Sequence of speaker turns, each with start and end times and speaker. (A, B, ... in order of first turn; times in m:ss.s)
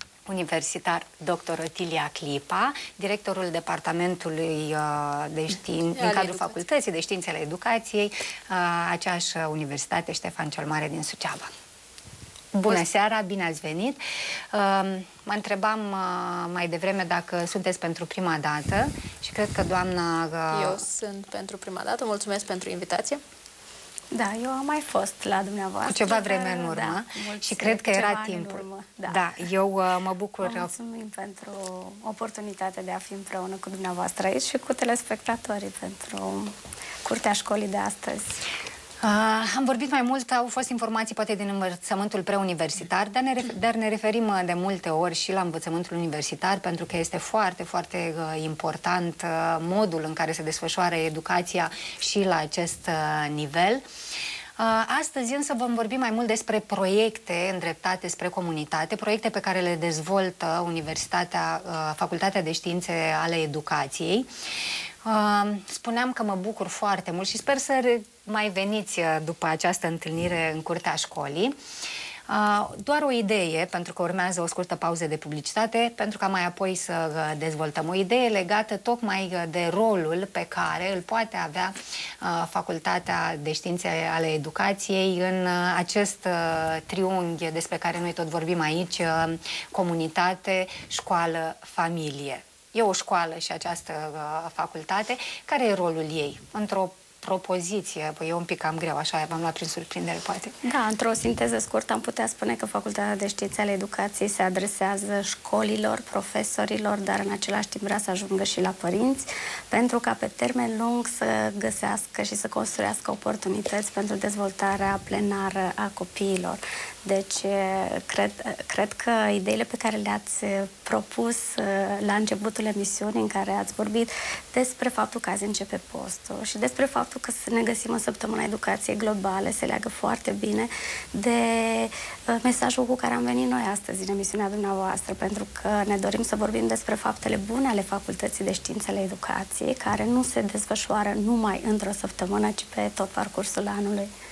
0:00.2-0:11.5 A
0:06.0-0:06.6 B
0:12.5-0:14.0 A
0:14.5-0:20.8 A
0:20.5-0:23.2 B
0:24.1-0:29.3 C
0:25.8-0:30.7 A
0:30.4-0:38.4 C
0:39.0-0:53.8 A
0:54.6-1:04.3 A
1:05.0-1:11.6 A
1:12.3-1:40.6 A
1:40.6-2:24.1 C